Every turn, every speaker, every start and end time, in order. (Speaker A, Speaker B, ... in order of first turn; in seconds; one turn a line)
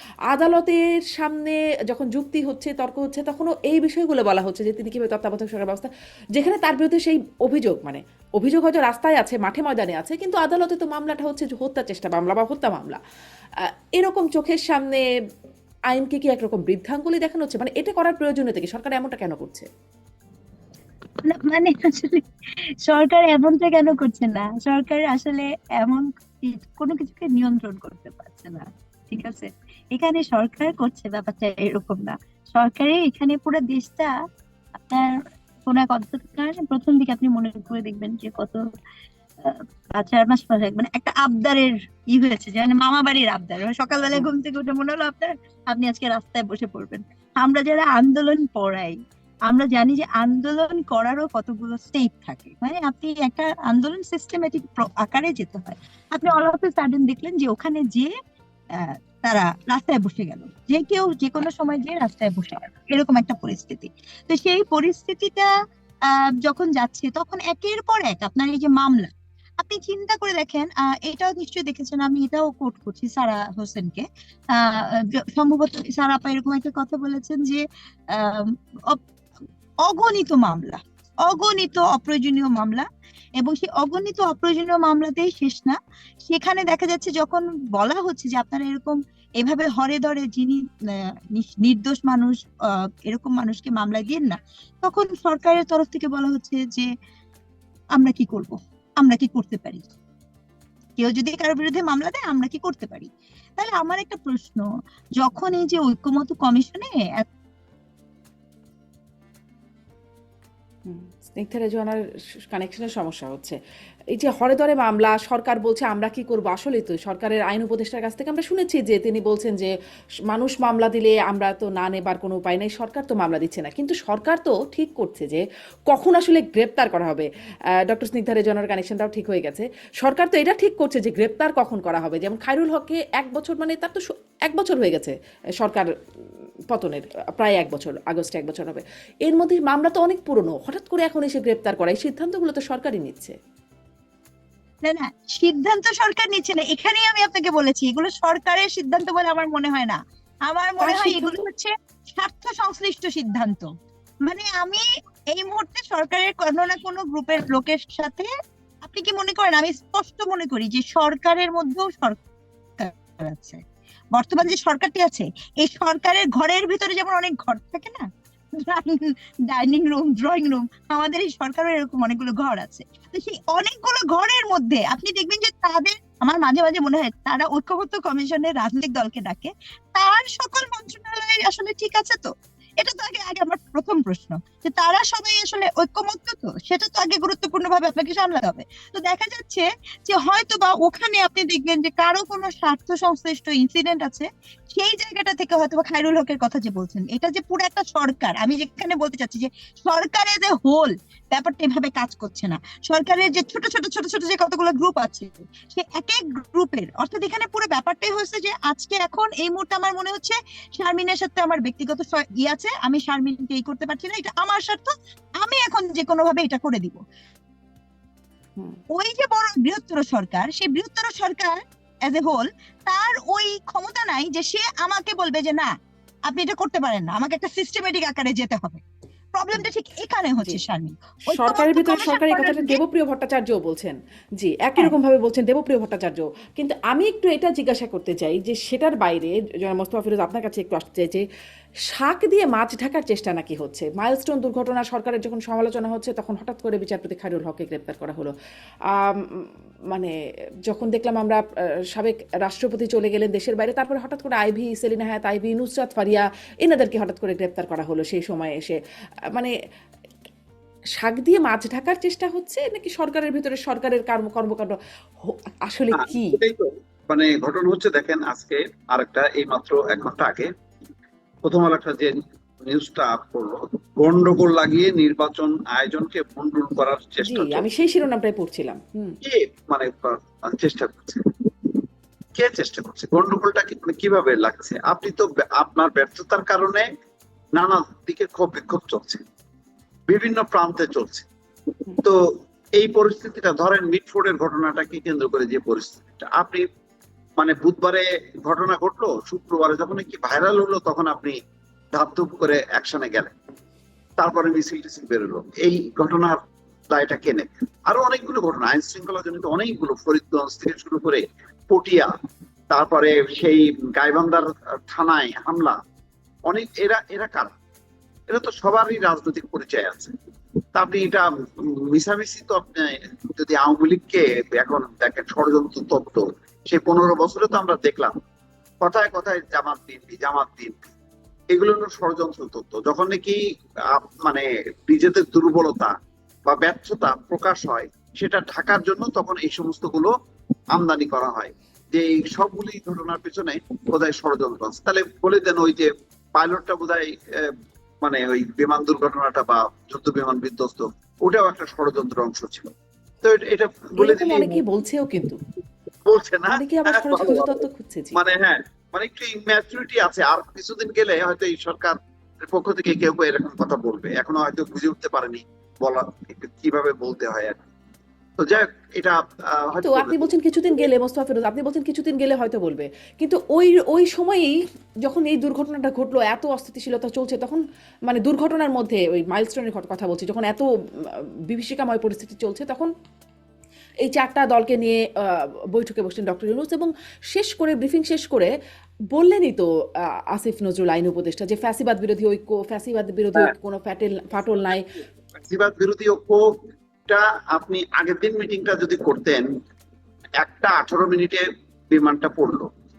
Speaker A: 0.3-13.0
Speaker A: 13.9-15.0
Speaker A: 15.9-19.7
Speaker B: 21.2-22.2
Speaker B: 22.9-34.1
Speaker B: 34.9-38.6
Speaker B: 39.4-49.0
Speaker B: 49.5-58.1
Speaker B: 58.7-65.5
Speaker B: 66.1-79.0
Speaker B: 79.8-82.9
Speaker B: 83.4-96.9
Speaker B: 98.0-99.9
Speaker B: 101.0-104.7
Speaker B: 105.2-107.3
Speaker A: 110.9-113.6
Speaker A: 114.2-119.7
Speaker A: 120.3-127.3
Speaker A: 127.9-135.9
Speaker A: 136.7-143.3
Speaker B: 144.8-153.7
Speaker A: 150.8-151.4
Speaker B: 154.2-158.3
Speaker B: 158.8-162.2
Speaker B: 162.8-163.6
Speaker B: 164.1-168.1
Speaker B: 168.6-217.0
Speaker B: 218.9-225.7
Speaker B: 226.3-228.8
Speaker B: 229.3-232.8
Speaker A: 231.3-241.2
Speaker A: 241.9-248.3
Speaker A: 249.0-250.1
Speaker A: 250.7-251.4
Speaker A: 251.9-258.8
Speaker A: 261.0-266.4
Speaker C: 265.9-270.5
Speaker C: 271.4-272.2
Speaker C: 272.7-277.7
Speaker A: 277.3-279.2
Speaker C: 279.2-281.2
Speaker C: 282.4-286.9
Speaker C: 287.6-289.2
Speaker C: 290.1-291.3
Speaker C: 292.8-296.7
Speaker C: 297.4-301.4
Speaker C: 301.9-303.3
Speaker C: 304.2-306.4
Speaker C: 306.9-312.1
Speaker C: 312.7-315.8
Speaker C: 316.5-317.5
Speaker C: 318.3-320.1
Speaker C: 320.8-328.1
Speaker C: 328.8-330.9
Speaker C: 331.5-333.4
Speaker C: 333.9-335.9
Speaker C: 336.5-340.1
Speaker C: 340.7-354.6
Speaker A: 354.0-355.4
Speaker C: 356.1-357.6
Speaker A: 356.5-358.2
Speaker C: 358.1-362.0
Speaker C: 362.5-367.7
Speaker C: 368.4-370.9
Speaker A: 369.8-380.6
Speaker A: 381.5-382.9
Speaker A: 384.0-385.0
Speaker A: 385.7-388.5
Speaker A: 389.1-389.6
Speaker A: 390.4-394.9
Speaker C: 395.4-396.4
Speaker C: 397.1-399.5
Speaker C: 400.4-402.7